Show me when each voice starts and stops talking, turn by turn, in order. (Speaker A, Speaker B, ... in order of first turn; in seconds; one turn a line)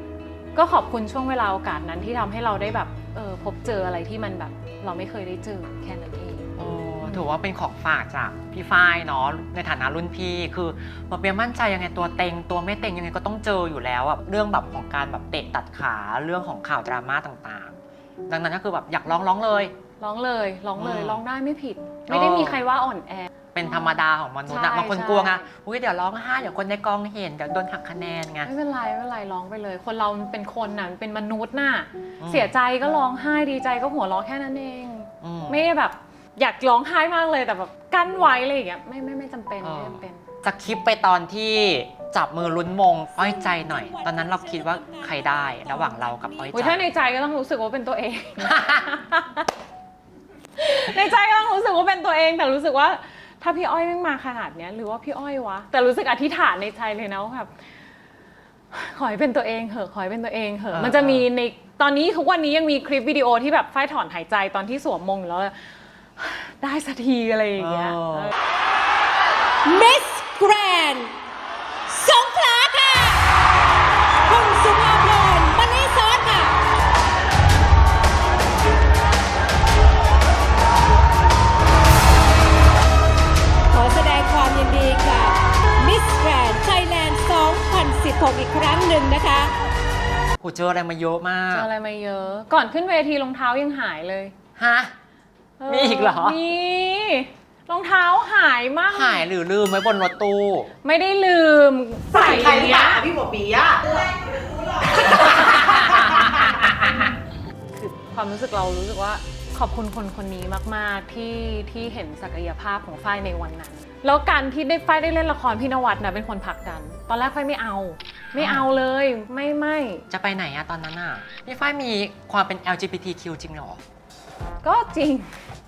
Speaker A: 0.6-7.2
Speaker B: 6.6-17.8
Speaker B: 18.3-19.7
Speaker A: 20.0-23.9
Speaker B: 20.8-21.2
Speaker B: 22.1-22.6
Speaker B: 23.5-28.5
Speaker A: 24.5-25.5
Speaker A: 28.4-40.3
Speaker B: 32.2-32.5
Speaker B: 35.2-35.6
Speaker B: 39.6-46.9
Speaker C: 43.4-46.6
Speaker A: 46.5-49.5
Speaker B: 48.4-48.9
Speaker A: 50.6-57.5
Speaker A: 58.7-68.3
Speaker B: 60.7-61.3
Speaker B: 67.6-68.3
Speaker C: 69.6-71.1
Speaker C: 71.9-73.2
Speaker C: 74.3-76.5
Speaker C: 83.7-89.5
Speaker B: 90.4-91.7
Speaker A: 91.5-94.3
Speaker B: 94.6-95.0
Speaker A: 95.6-99.3
Speaker B: 95.7-96.4
Speaker B: 98.9-100.7
Speaker A: 100.8-103.0
Speaker D: 102.1-103.9
Speaker D: 105.2-106.3
Speaker B: 105.4-106.3
Speaker A: 107.7-120.0
Speaker B: 118.4-118.7
Speaker B: 120.1-123.8
Speaker A: 124.6-125.4